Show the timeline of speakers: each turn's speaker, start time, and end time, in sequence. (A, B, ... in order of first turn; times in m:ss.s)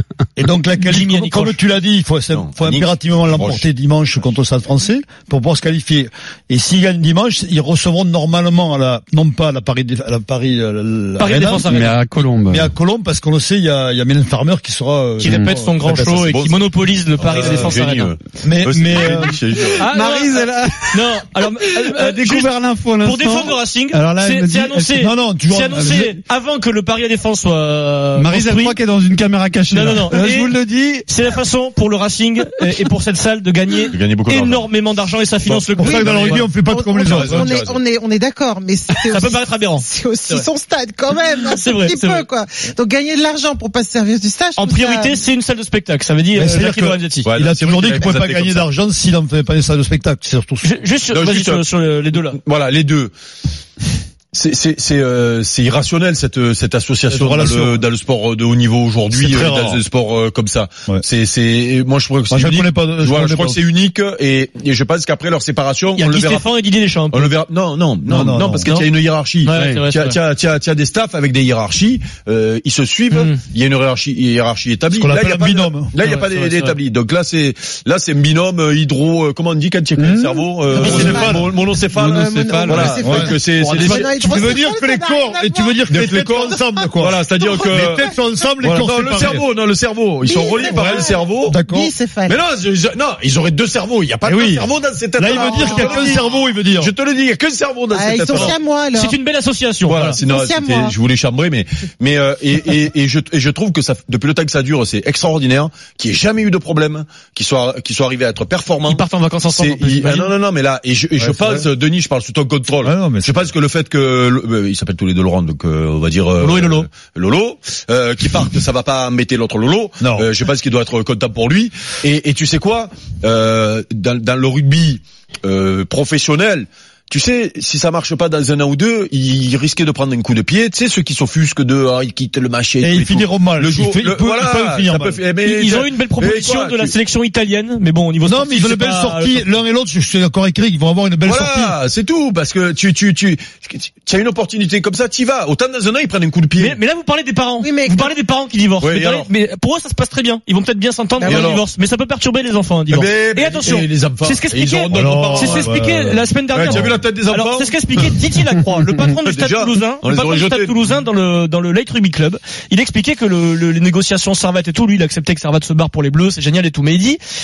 0:00.4-0:11.8 A
0:00.8-0:01.6 B
0:02.3-0:03.6 C
0:11.2-0:11.9 B
0:11.7-0:12.7 D
0:12.5-0:16.0 A
0:15.2-0:18.1 B
0:15.8-0:19.8 C
0:17.4-0:17.7 A
0:18.4-0:19.4 A
0:19.8-0:28.8 B
0:19.8-0:21.0 D
0:21.7-0:25.0 D
0:24.9-0:26.1 A
0:25.8-0:26.0 D
0:28.2-0:31.1 D
0:29.7-0:30.6 B
0:31.1-0:36.4 B
0:33.9-0:34.7 C
0:35.4-0:36.5 C
0:35.8-0:37.5 A
0:35.9-0:45.2 E
0:37.0-0:37.8 C
0:39.1-0:40.4 B
0:41.5-0:42.2 B
0:44.6-0:47.3 B
0:46.3-0:50.7 A
0:47.2-0:48.7 C
0:50.6-0:52.4 B
0:51.1-0:51.6 C
0:52.3-0:53.1 C
0:54.3-1:06.4 C
0:57.1-0:57.8 A
0:59.1-0:59.8 A
1:02.3-1:03.6 A
1:06.0-1:07.3 B
1:07.1-1:24.1 C
1:08.0-1:08.7 A
1:08.6-1:08.9 B
1:09.4-1:10.2 B
1:09.5-1:09.8 D
1:13.1-1:13.4 B
1:14.9-1:15.9 A
1:16.0-1:16.8 B
1:20.0-1:20.4 D
1:20.7-1:25.8 E
1:20.7-1:21.5 A
1:22.2-1:23.2 D
1:23.0-1:29.4 A
1:25.9-1:28.1 C
1:26.5-1:26.9 E
1:27.4-1:28.5 E
1:28.6-1:31.6 C
1:30.2-1:32.4 E
1:30.7-1:31.9 A
1:32.3-1:38.6 C
1:34.2-1:36.9 A
1:35.3-1:36.3 E
1:37.9-1:39.2 E
1:38.9-1:40.2 B
1:39.9-2:16.9 C
1:40.1-1:40.9 E
1:48.9-1:50.3 B
1:51.2-1:51.6 A
1:52.8-1:53.5 A
1:56.4-1:56.9 B
2:00.0-2:00.3 A
2:12.8-2:15.2 A
2:15.4-2:19.4 B
2:18.2-2:21.8 A
2:21.2-2:26.8 C
2:26.6-2:47.2 B
2:27.6-2:28.1 E
2:28.8-2:29.3 C
2:31.2-2:31.6 E
2:31.2-2:31.6 C
2:32.9-2:35.8 C
2:34.9-2:37.0 A
2:36.5-2:38.1 C
2:39.2-2:40.8 C